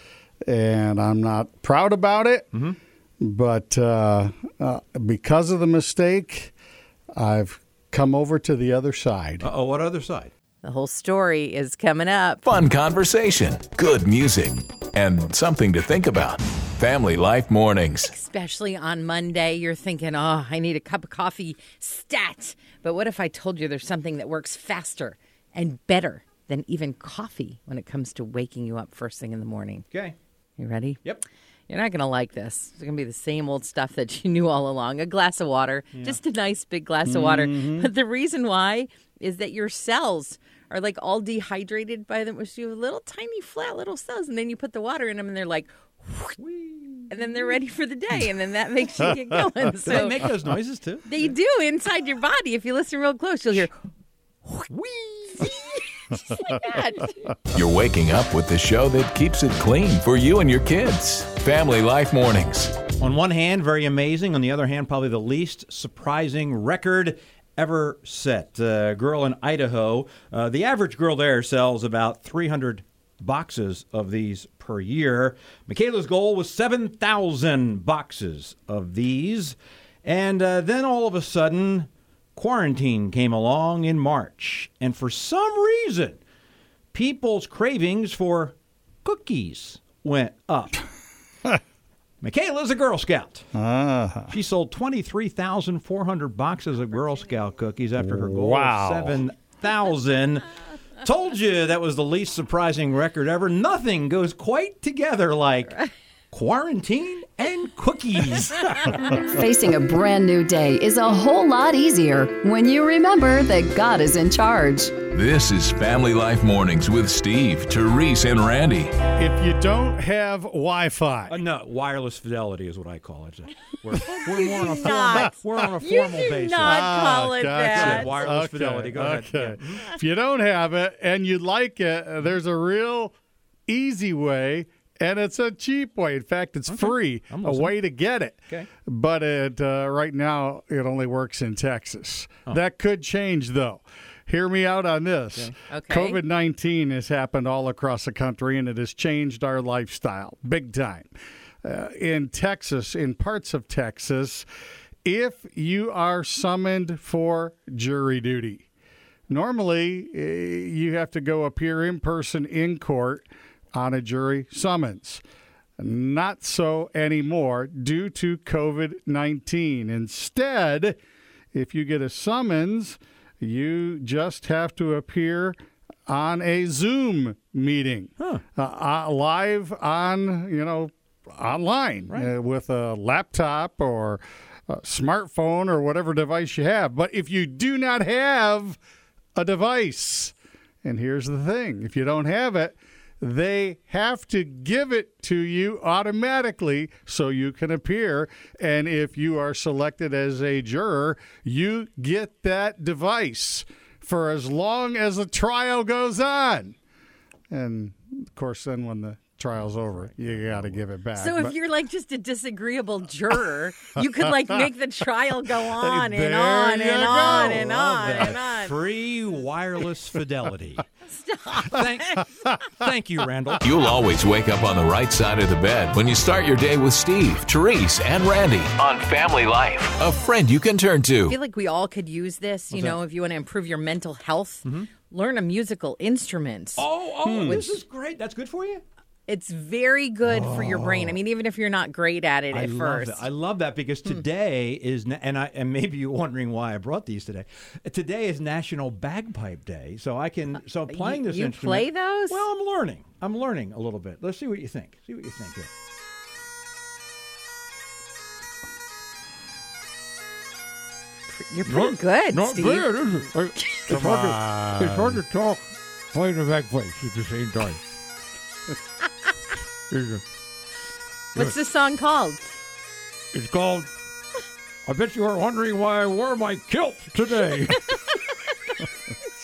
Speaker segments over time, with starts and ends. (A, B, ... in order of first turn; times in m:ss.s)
0:00.4-0:02.5 A
0:02.5-0:02.8 B
0:03.2-0:06.5 A
0:07.2-0:09.5 A
0:09.4-0:10.3 B
0:10.6-0:12.4 C
0:12.4-0:18.1 D
0:18.0-0:29.8 C
0:30.6-0:31.0 C
0:31.7-0:46.4 C
0:35.9-0:36.2 B
0:37.0-0:37.9 A
0:46.4-0:47.1 B
0:47.1-0:50.2 C
0:49.0-0:49.4 A
0:49.8-0:51.1 B
0:51.0-0:53.7 C
0:54.7-0:55.6 B
0:55.4-0:57.3 C
0:57.5-1:02.8 D
1:03.0-1:26.2 B
1:26.9-1:30.8 B
1:32.2-1:33.5 B
1:33.5-1:34.3 A
1:34.3-1:49.4 B
1:38.0-1:39.2 A
1:49.3-1:55.0 E
1:55.1-1:58.9 D
1:59.1-2:01.4 A
2:01.3-2:06.9 B
2:04.0-2:08.2 C
2:05.0-2:05.3 A
2:06.6-2:13.1 A
2:07.6-2:09.8 B
2:13.7-2:34.5 A
2:16.7-2:17.7 B
2:25.7-2:26.2 C
2:35.0-2:38.7 A
2:39.3-2:45.2 A
2:45.8-2:51.0 A
2:51.5-2:55.6 A
2:56.1-3:08.8 A
3:09.3-3:26.8 A
3:27.5-3:31.5 A
3:29.6-3:30.8 B
3:31.1-3:38.7 C
3:35.8-3:38.4 A
3:37.2-3:40.9 B
3:41.0-3:41.9 C
3:41.6-3:43.7 B
3:43.6-3:51.4 D
3:51.3-3:56.8 C
3:52.7-3:53.0 B
3:54.6-3:54.9 B
3:56.8-3:58.8 B
3:57.2-3:57.8 A
3:59.3-4:03.3 C
4:00.2-4:01.2 B
4:02.5-4:15.7 B
4:10.9-4:12.4 C
4:21.3-4:22.9 C
4:21.7-4:27.8 F
4:23.9-4:25.2 A
4:29.9-4:30.2 F
4:31.3-4:32.6 C
4:33.3-4:33.9 F
4:34.8-4:38.0 F